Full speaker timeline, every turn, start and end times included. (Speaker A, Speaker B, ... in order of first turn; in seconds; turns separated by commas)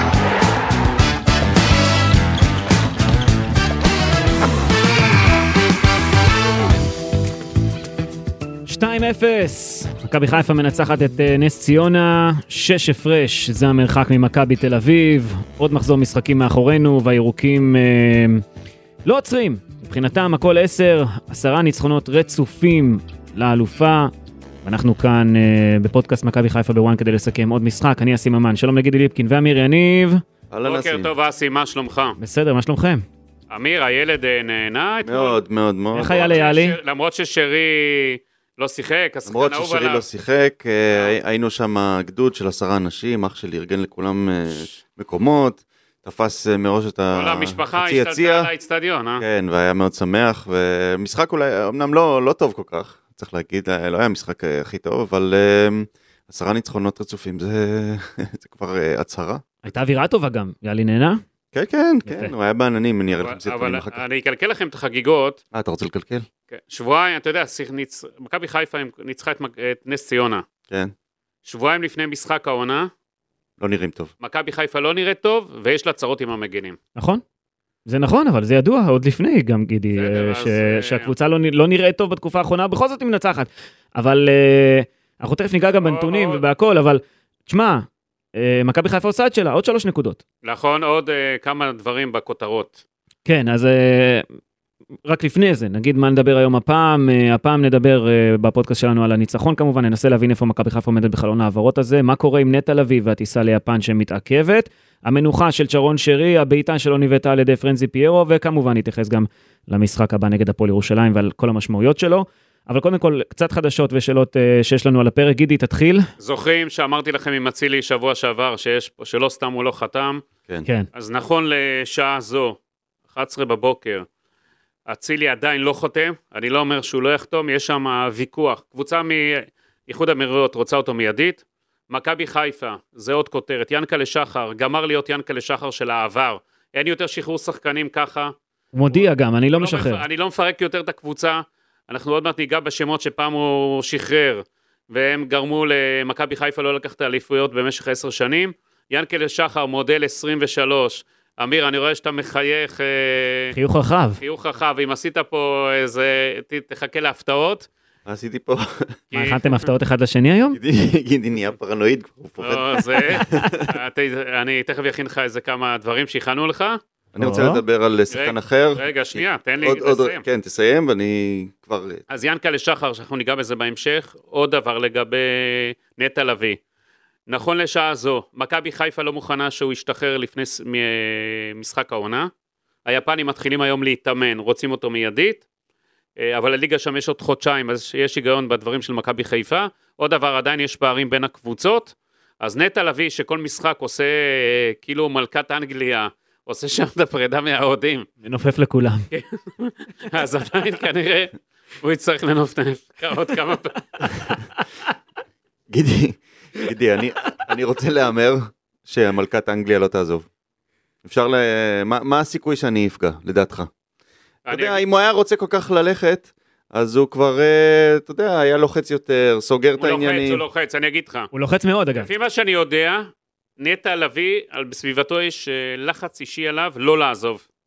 Speaker A: 8.7-18.4, Speaker A: 19.0-24.1, Speaker A: 24.6-30.2, Speaker B: 30.5-31.1, Speaker C: 30.6-32.2, Speaker A: 32.2-33.0, Speaker C: 33.5-35.4, Speaker B: 35.0-36.4, Speaker A: 35.9-36.8, Speaker C: 36.0-40.0, Speaker B: 39.2-48.5, Speaker C: 47.1-49.2, Speaker B: 49.2-59.4, Speaker A: 59.6-61.2, Speaker B: 61.5-64.0, Speaker A: 62.0-62.3, Speaker C: 63.1-65.4, Speaker B: 65.5-66.2, Speaker C: 66.5-70.4, Speaker C: 71.4-72.9, Speaker B: 73.6-74.1, Speaker C: 74.2-76.8, Speaker A: 77.0-77.2, Speaker A: 77.8-90.2, Speaker C: 79.9-81.1, Speaker C: 85.7-86.4, Speaker C: 90.4-92.8, Speaker A: 93.2-94.2, Speaker A: 95.0-116.1, Speaker C: 116.2-120.2, Speaker C: 120.9-122.6, Speaker C: 123.1-124.0, Speaker C: 124.9-138.3, Speaker A: 138.7-140.0, Speaker C: 138.9-153.5, Speaker A: 153.5-154.2, Speaker C: 154.2-157.7, Speaker B: 158.1-159.0, Speaker C: 159.1-159.7, Speaker A: 159.1-160.6, Speaker B: 160.5-163.7, Speaker C: 162.4-166.8, Speaker A: 163.2-163.5, Speaker B: 167.1-172.0, Speaker A: 167.2-167.6, Speaker C: 168.1-170.2, Speaker C: 172.1-176.6, Speaker C: 177.3-182.3, Speaker C: 182.8-185.4, Speaker C: 186.2-198.1, Speaker A: 198.2-199.1, Speaker C: 199.1-204.3, Speaker B: 205.7-210.2, Speaker B: 211.0-213.7, Speaker C: 214.4-214.8, Speaker B: 214.5-220.4, Speaker C: 219.8-221.3, Speaker A: 221.3-222.1, Speaker C: 221.9-227.4